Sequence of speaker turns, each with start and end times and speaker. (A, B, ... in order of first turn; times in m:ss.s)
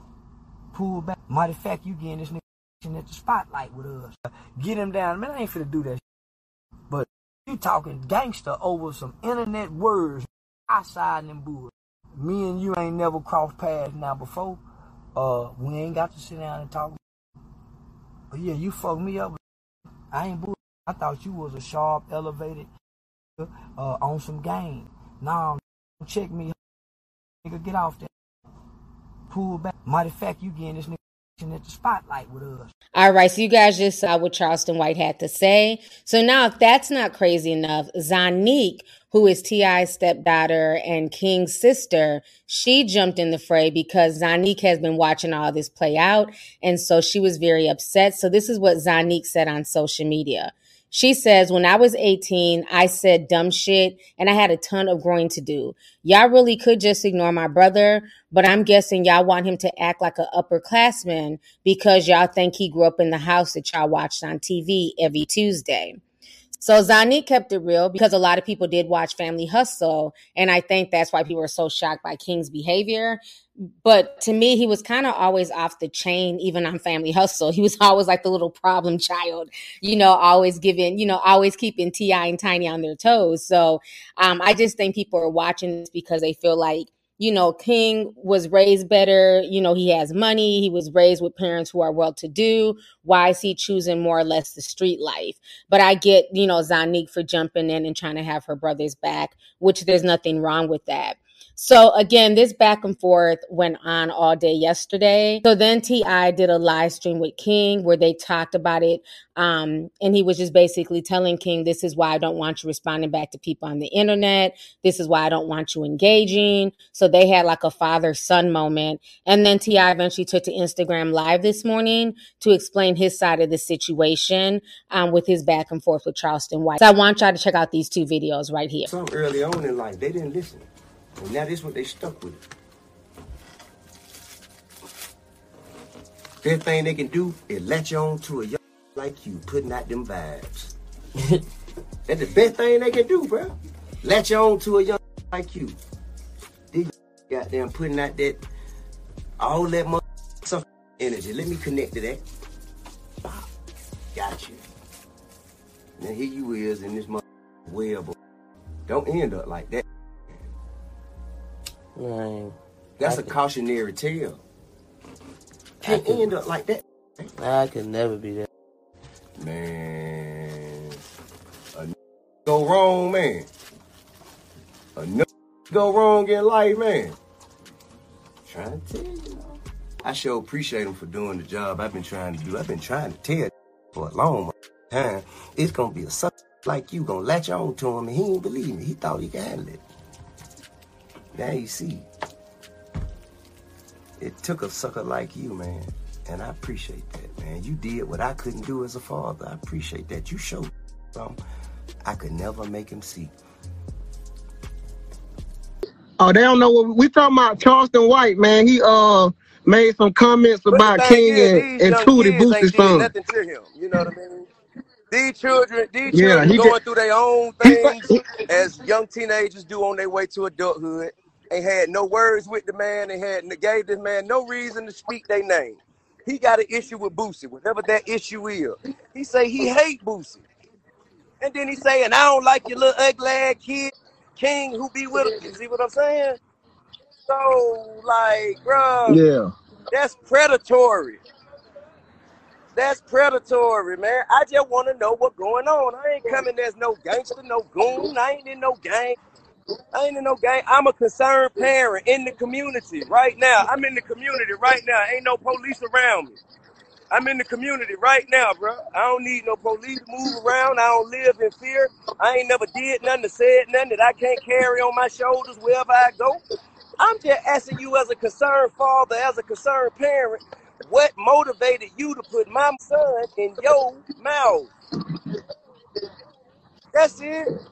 0:00.7-0:06.0 A
0:06.9-0:14.6 A
0:15.2-0:17.0 A
0:18.3-0:19.4 A
0:20.1-0:22.7 A
0:23.4-0:26.6 A
0:27.4-0:28.1 A
0:29.3-0:32.7 A
0:33.0-1:06.0 B
1:06.6-1:13.2 B
1:13.8-2:08.9 B
2:08.9-2:10.6 C
2:11.2-2:12.4 C
2:16.4-2:20.7 C
2:22.1-2:23.5 C
2:24.0-2:25.8 C
2:26.7-2:28.4 C
2:29.4-2:32.2 C
2:34.2-2:34.6 C
2:36.0-2:38.1 C
2:38.9-2:39.8 C
2:42.0-2:43.4 D
2:43.0-2:44.4 C
2:45.8-2:46.3 D
2:45.8-2:46.8 C
2:47.4-2:48.5 D
2:49.4-2:50.5 C
2:52.5-2:53.4 C
2:55.0-2:57.1 C
2:58.5-2:59.4 C
3:00.1-3:08.0 C
3:16.5-3:16.8 C
3:22.1-3:22.9 C
3:26.2-3:33.1 E
3:30.7-3:34.5 C
3:35.1-3:50.4 C
3:36.1-3:36.8 E
3:37.6-3:38.2 E
3:51.4-3:56.4 C
3:57.3-3:59.2 C
3:59.1-3:59.5 E
3:59.9-4:01.2 C
4:02.8-4:09.2 C
4:09.9-4:16.4 C
4:17.1-4:26.4 C
4:27.0-4:34.7 C
4:36.9-4:37.5 C